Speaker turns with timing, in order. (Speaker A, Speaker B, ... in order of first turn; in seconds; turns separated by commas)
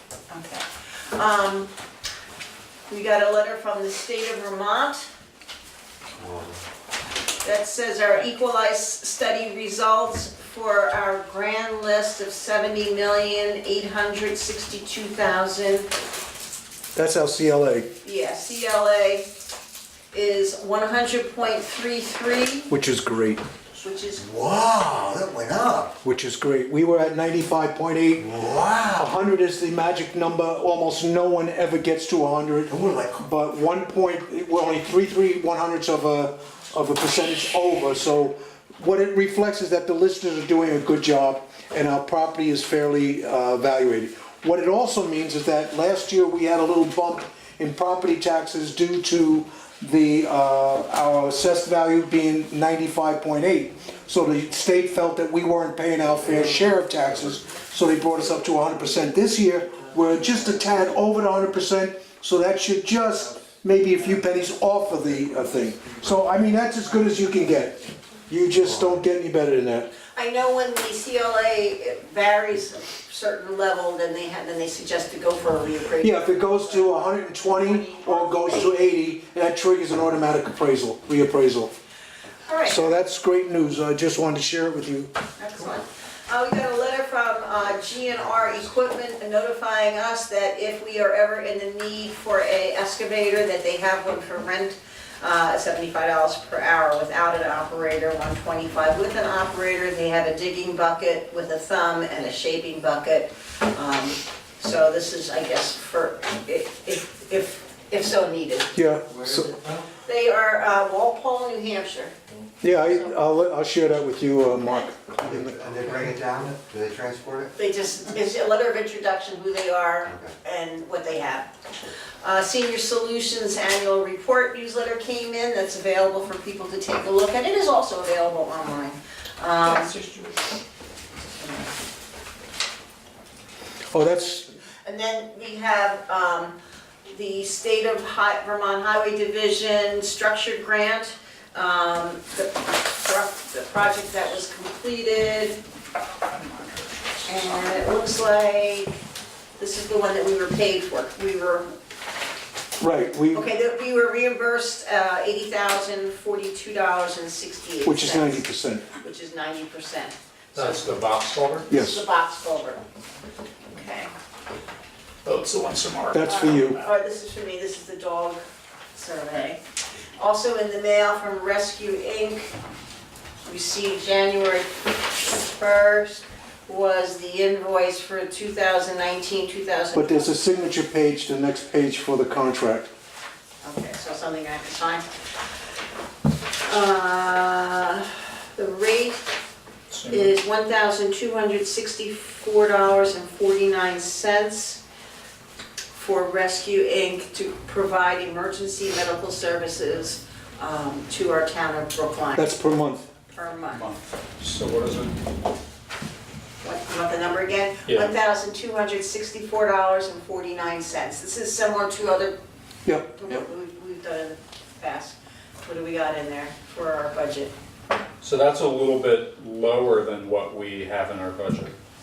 Speaker A: 0.3-1.7, Speaker A: 2.9-5.1, Speaker B: 6.1-6.5, Speaker A: 7.4-15.9, Speaker C: 16.9-17.9, Speaker A: 18.0-19.3, Speaker A: 20.1-22.7, Speaker C: 22.7-23.4, Speaker A: 23.8-24.2, Speaker B: 24.2-25.9, Speaker C: 26.0-28.3, Speaker B: 28.2-29.1, Speaker C: 28.9-67.8, Speaker B: 32.7-33.2, Speaker B: 56.2-57.3, Speaker B: 60.0-60.9, Speaker B: 64.0-64.4, Speaker B: 64.9-66.2, Speaker C: 68.3-69.9, Speaker B: 68.6-69.0, Speaker A: 70.2-76.9, Speaker C: 76.0-81.7, Speaker A: 77.5-78.7, Speaker A: 82.4-82.9, Speaker C: 82.7-85.1, Speaker A: 85.4-108.8, Speaker B: 88.0-88.7, Speaker C: 108.7-109.5, Speaker B: 109.1-109.9, Speaker A: 110.0-112.1, Speaker C: 112.6-115.6, Speaker B: 115.2-117.5, Speaker A: 117.5-121.5, Speaker B: 120.0-120.3, Speaker A: 122.2-129.9, Speaker D: 129.6-130.4, Speaker A: 131.3-131.7, Speaker C: 133.9-134.5, Speaker A: 134.8-136.6, Speaker A: 137.1-145.6, Speaker D: 146.2-147.7, Speaker A: 147.2-149.0, Speaker A: 149.6-151.7, Speaker C: 152.8-153.4, Speaker A: 153.3-158.4, Speaker C: 157.8-158.9, Speaker A: 159.0-160.9, Speaker D: 160.5-161.7, Speaker A: 161.7-162.8, Speaker C: 161.7-162.0, Speaker A: 163.7-164.1, Speaker D: 165.2-166.7, Speaker C: 166.1-166.8, Speaker A: 166.2-168.4, Speaker A: 168.9-169.6, Speaker A: 170.2-172.5, Speaker A: 173.4-180.4, Speaker C: 179.9-182.9, Speaker A: 183.6-185.0, Speaker A: 186.7-189.3, Speaker D: 189.9-190.3, Speaker A: 190.1-194.8, Speaker A: 195.9-202.5, Speaker C: 202.3-203.1, Speaker A: 203.3-203.8, Speaker D: 203.7-205.2, Speaker A: 206.6-212.4, Speaker D: 207.8-208.1, Speaker C: 212.8-213.4, Speaker A: 213.1-217.5, Speaker D: 218.2-221.7